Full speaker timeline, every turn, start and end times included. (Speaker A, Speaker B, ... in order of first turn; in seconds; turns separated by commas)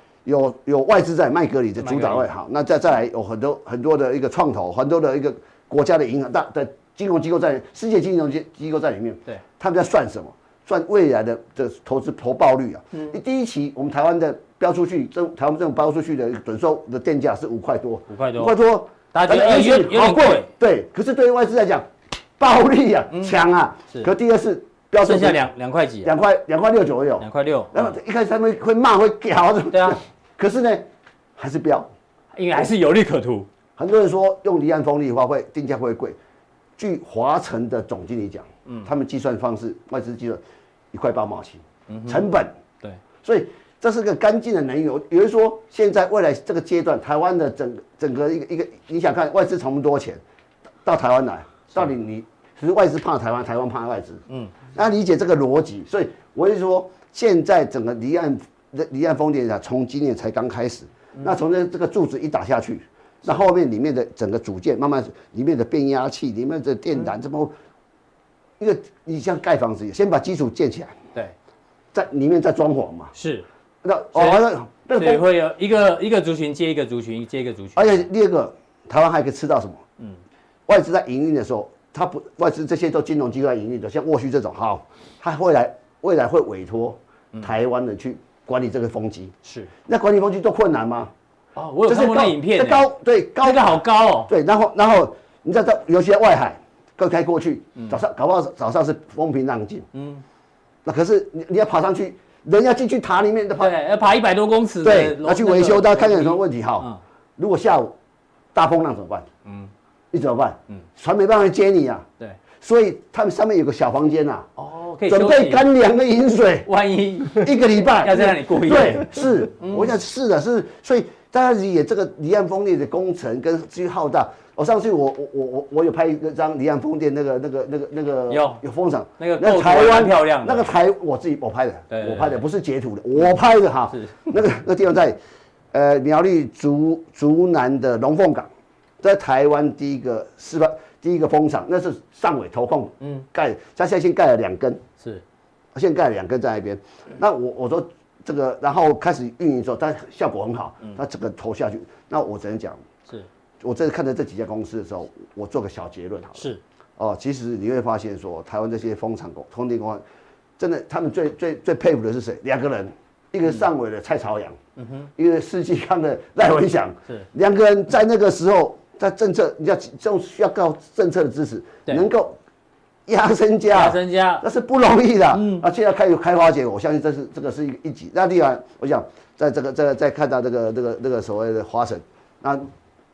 Speaker A: 0.2-25.4, Speaker B: 1.8-2.3, Speaker B: 18.1-18.5, Speaker B: 19.1-20.5, Speaker B: 23.1-23.4, Speaker B: 25.0-26.1, Speaker A: 26.0-31.9, Speaker B: 27.2-27.9, Speaker B: 29.7-30.0, Speaker B: 32.3-33.5, Speaker A: 33.8-36.2, Speaker A: 36.8-40.4, Speaker A: 40.9-42.5, Speaker B: 41.9-42.3, Speaker A: 43.2-50.2, Speaker A: 50.8-67.5, Speaker B: 54.3-54.5, Speaker A: 68.6-71.0, Speaker A: 71.9-73.1, Speaker B: 73.1-73.5, Speaker A: 73.8-75.2, Speaker B: 74.1-78.0, Speaker A: 77.8-79.8, Speaker A: 80.7-91.1, Speaker B: 89.4-89.7, Speaker B: 91.5-92.9, Speaker A: 91.8-99.9, Speaker B: 93.4-94.3, Speaker B: 99.9-100.2, Speaker A: 100.8-103.8, Speaker B: 103.6-107.0, Speaker A: 104.8-107.9, Speaker A: 108.5-109.3, Speaker B: 109.4-109.7, Speaker A: 110.1-112.0, Speaker A: 112.6-114.5, Speaker B: 114.6-115.6, Speaker A: 115.0-116.7, Speaker B: 116.7-119.9, Speaker A: 117.3-135.2, Speaker B: 128.3-128.6, Speaker B: 129.2-130.7, Speaker B: 131.9-132.4, Speaker B: 133.9-134.3, Speaker A: 135.7-138.5, Speaker A: 139.0-144.8, Speaker A: 145.7-152.8, Speaker A: 153.6-160.0, Speaker B: 156.3-156.6, Speaker A: 160.6-164.6, Speaker B: 164.8-165.1, Speaker A: 165.2-172.4, Speaker A: 173.1-182.7, Speaker B: 173.7-174.4, Speaker B: 175.3-175.7